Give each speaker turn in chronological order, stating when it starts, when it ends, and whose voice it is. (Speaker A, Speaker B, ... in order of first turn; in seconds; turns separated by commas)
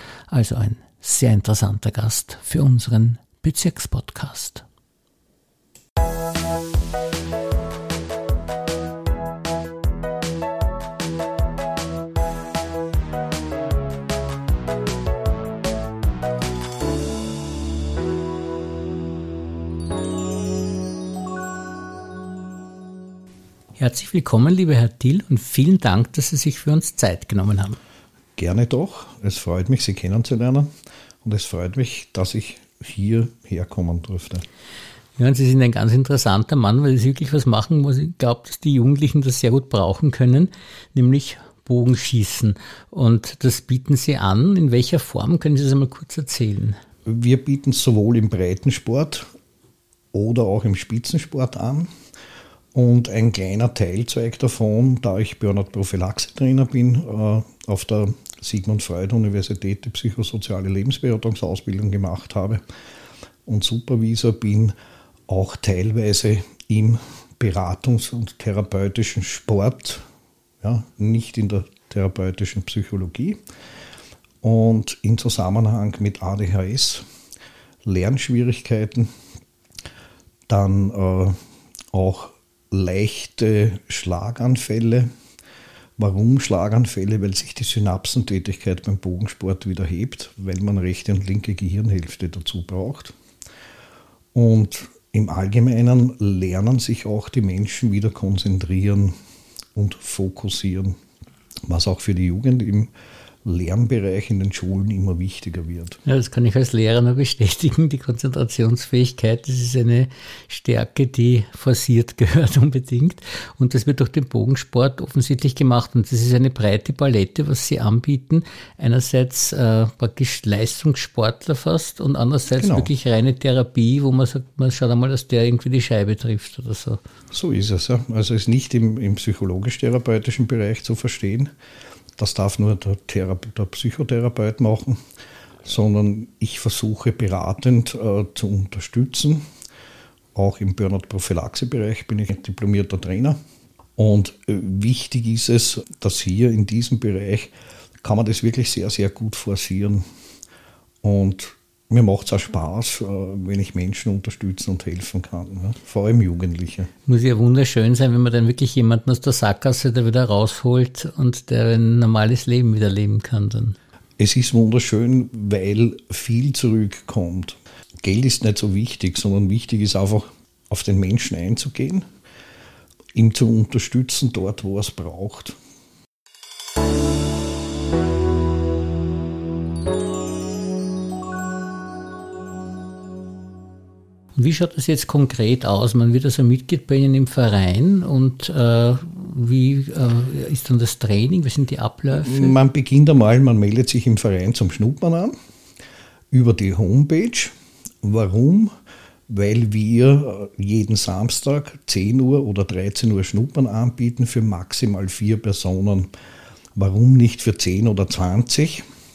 Speaker A: 0.3-4.6, Speaker A: 23.8-27.8, Speaker B: 28.4-30.7, Speaker B: 31.2-34.4, Speaker A: 35.2-46.8, Speaker B: 47.0-49.3, Speaker B: 50.1-51.9, Speaker B: 52.7-62.6, Speaker B: 63.5-64.7, Speaker B: 65.3-70.0, Speaker B: 70.6-73.4, Speaker B: 74.4-77.0, Speaker B: 77.8-79.1, Speaker B: 80.5-81.4, Speaker B: 81.9-85.1, Speaker B: 86.0-93.1, Speaker B: 94.3-99.1, Speaker B: 99.7-101.0, Speaker B: 101.7-102.9, Speaker B: 103.4-106.0, Speaker A: 106.0-127.0, Speaker B: 122.6-122.9, Speaker B: 127.3-131.5, Speaker B: 132.2-135.0, Speaker B: 135.6-139.4, Speaker B: 140.3-143.4, Speaker B: 144.0-150.0, Speaker B: 151.0-156.9, Speaker A: 157.1-163.8, Speaker B: 164.2-172.1, Speaker B: 173.1-175.6, Speaker A: 184.3-192.6, Speaker B: 192.1-195.3, Speaker B: 196.3-198.7, Speaker B: 199.3-206.1, Speaker B: 206.7-208.8